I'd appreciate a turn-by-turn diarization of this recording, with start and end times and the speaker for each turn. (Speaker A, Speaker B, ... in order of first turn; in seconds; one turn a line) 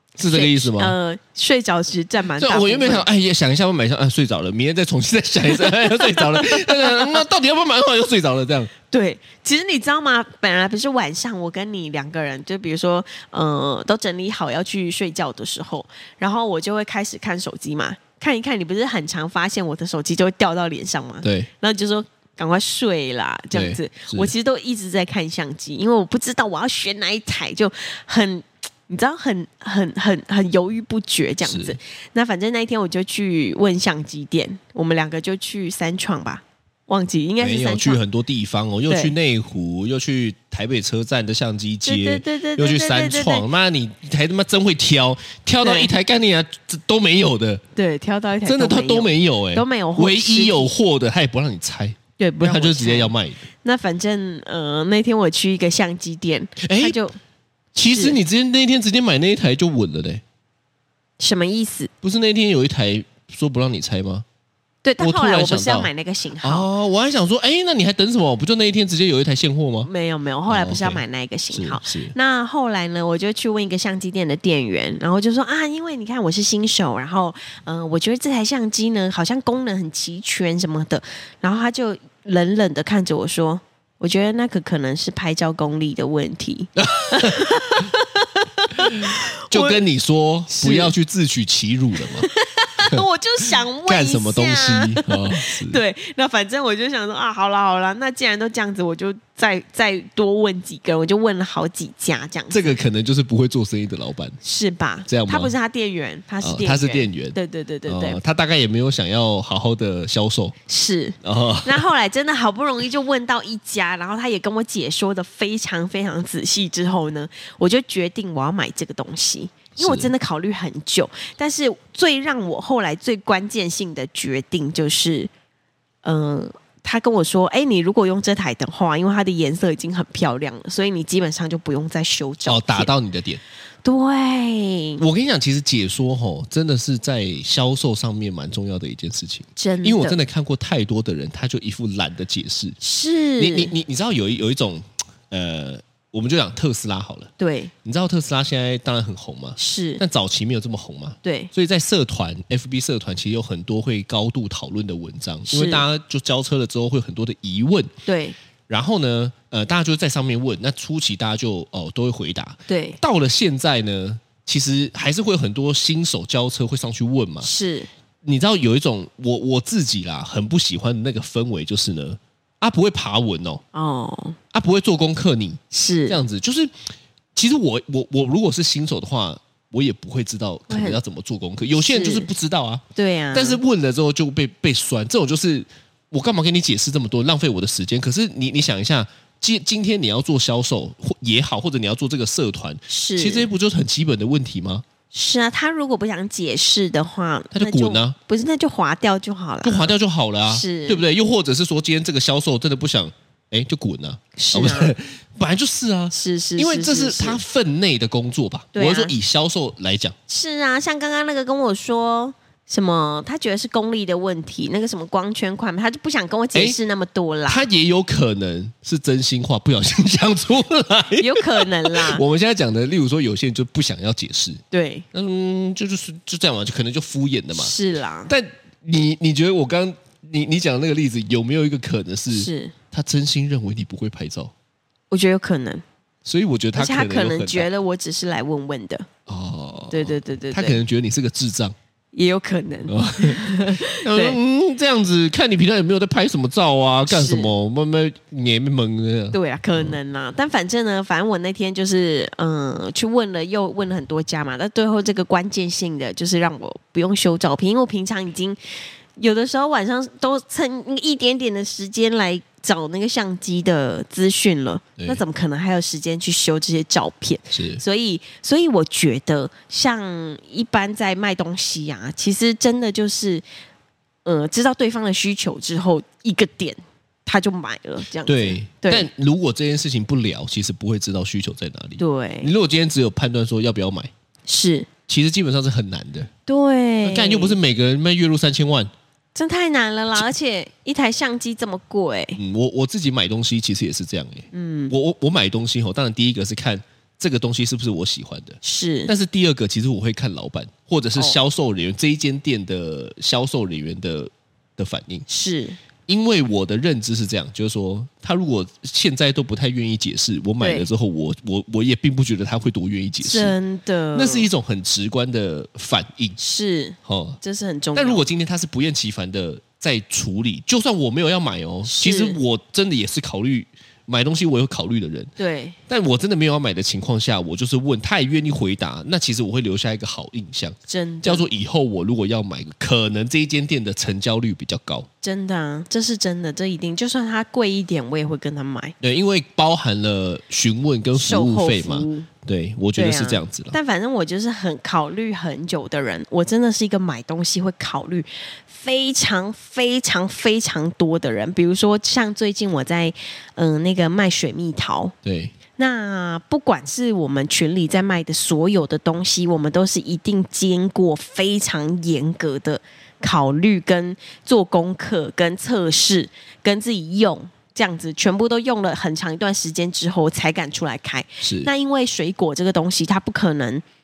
Speaker A: 0.2-0.9
Speaker B: 0.2-3.1
Speaker A: 2.4-8.7
Speaker B: 5.6-7.2
Speaker B: 8.9-38.0
Speaker A: 21.2-21.5
Speaker A: 23.5-24.3
Speaker A: 31.4-31.8
Speaker A: 37.4-47.6
Speaker B: 38.9-39.1
Speaker B: 41.8-43.5
Speaker B: 45.6-45.9
Speaker B: 47.8-50.7
Speaker A: 48.4-53.4
Speaker B: 52.2-57.2
Speaker A: 56.6-57.0
Speaker A: 57.7-60.2
Speaker B: 57.9-58.2
Speaker B: 61.2-61.9
Speaker A: 62.0-64.2
Speaker B: 64.8-66.7
Speaker A: 65.0-65.9
Speaker A: 66.4-69.9
Speaker B: 69.8-89.8
Speaker A: 70.5-72.1
Speaker A: 86.8-87.9
Speaker A: 88.8-92.3
Speaker B: 90.5-90.9
Speaker B: 92.0-102.8
Speaker A: 93.8-95.8
Speaker A: 102.5-104.4
Speaker B: 104.4-108.2
Speaker A: 105.1-105.5
Speaker A: 106.4-110.5
Speaker B: 110.7-125.3
Speaker A: 111.2-111.8
Speaker A: 119.8-120.1
Speaker B: 126.0-132.9
Speaker A: 132.4-133.4
Speaker B: 133.8-135.0
Speaker A: 135.0-142.8
Speaker B: 139.6-140.2
Speaker B: 142.8-143.7
Speaker A: 143.4-147.3
Speaker B: 147.4-147.7
Speaker A: 147.8-157.9
Speaker B: 149.6-150.0
Speaker B: 151.2-151.5
Speaker B: 155.5-155.8
Speaker B: 158.1-158.4
Speaker A: 158.7-167.5
Speaker B: 162.7-163.0
Speaker B: 167.4-167.9
Speaker A: 168.2-173.6
Speaker B: 173.7-174.4
Speaker A: 174.5-176.7
Speaker B: 175.7-176.2
Speaker A: 177.3-194.8
Speaker B: 180.7-181.0
Speaker B: 181.8-182.3
Speaker B: 182.9-183.6
Speaker B: 192.9-193.5
Speaker B: 195.1-199.9
Speaker A: 197.5-198.2
Speaker A: 199.6-210.1
Speaker B: 200.5-201.0
Speaker B: 204.3-204.9
Speaker B: 206.1-207.4
Speaker B: 208.7-209.1
Speaker B: 210.3-217.7
Speaker A: 217.5-224.6
Speaker B: 221.2-222.2
Speaker B: 224.7-225.0
Speaker A: 225.1-227.7
Speaker B: 227.5-228.3
Speaker A: 228.3-234.5
Speaker B: 232.3-232.7
Speaker B: 235.1-235.8
Speaker A: 236.2-237.7
Speaker B: 236.7-239.1
Speaker A: 239.3-241.7
Speaker B: 239.9-240.8
Speaker B: 242.1-244.4
Speaker A: 242.9-249.9
Speaker B: 247.1-247.5
Speaker B: 249.3-258.6
Speaker B: 259.2-273.4
Speaker A: 267.5-267.8
Speaker B: 274.2-279.1
Speaker A: 278.2-284.1
Speaker B: 282.0-282.5
Speaker B: 284.5-284.9
Speaker A: 285.1-286.3
Speaker B: 286.5-287.6
Speaker A: 287.0-288.9
Speaker B: 289.3-292.4
Speaker A: 292.4-305.2
Speaker B: 294.5-294.9
Speaker B: 298.6-299.1
Speaker B: 305.3-305.8
Speaker A: 306.1-313.5
Speaker B: 310.6-310.9
Speaker B: 313.2-314.5
Speaker A: 314.1-316.4
Speaker B: 316.4-318.2
Speaker A: 317.0-317.4
Speaker A: 317.9-325.3
Speaker B: 321.9-322.4
Speaker B: 325.4-325.8
Speaker A: 325.9-335.1
Speaker B: 330.9-331.4
Speaker B: 335.2-338.9
Speaker A: 339.0-343.8
Speaker B: 341.1-342.3
Speaker B: 342.9-355.1
Speaker A: 355.2-355.5
Speaker B: 355.8-373.8
Speaker A: 371.4-371.7